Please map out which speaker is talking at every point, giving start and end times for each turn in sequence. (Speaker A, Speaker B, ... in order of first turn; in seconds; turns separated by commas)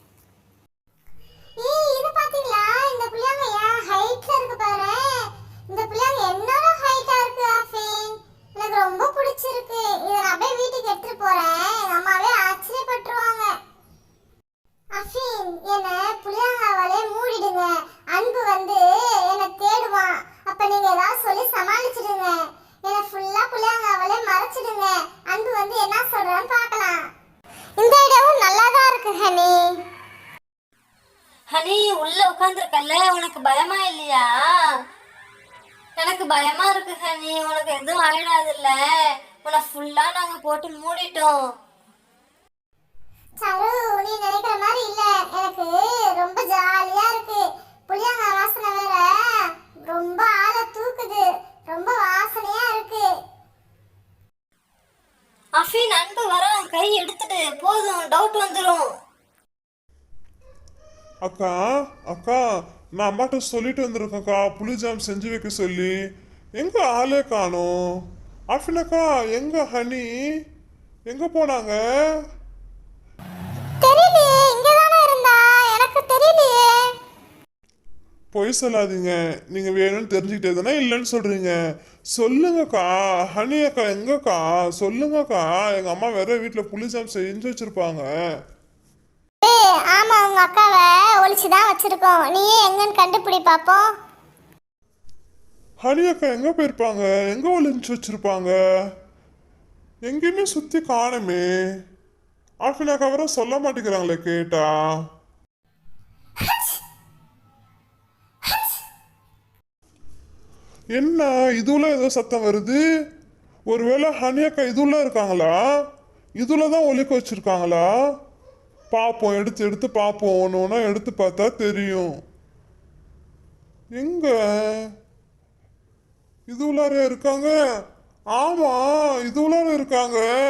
Speaker A: 1.6-13.5, Speaker A: 14.9-27.0, Speaker A: 27.8-29.6, Speaker B: 31.5-34.3, Speaker B: 36.0-38.8, Speaker B: 39.4-41.3, Speaker A: 43.4-49.1, Speaker A: 49.9-53.1, Speaker B: 55.6-58.9, Speaker C: 61.2-61.5, Speaker C: 62.1-62.4, Speaker C: 63.0-65.9, Speaker C: 66.6-67.7, Speaker C: 68.5-70.1, Speaker C: 71.1-71.8, Speaker A: 73.8-76.8, Speaker C: 78.3-81.5, Speaker C: 82.1-88.0, Speaker A: 89.4-93.9, Speaker C: 95.8-98.5, Speaker C: 100.0-101.5, Speaker C: 102.6-104.7, Speaker C: 111.0-112.8, Speaker C: 113.7-115.5, Speaker C: 116.4-117.9, Speaker C: 118.9-122.1, Speaker C: 124.0-124.9, Speaker C: 126.5-127.5, Speaker C: 128.3-130.2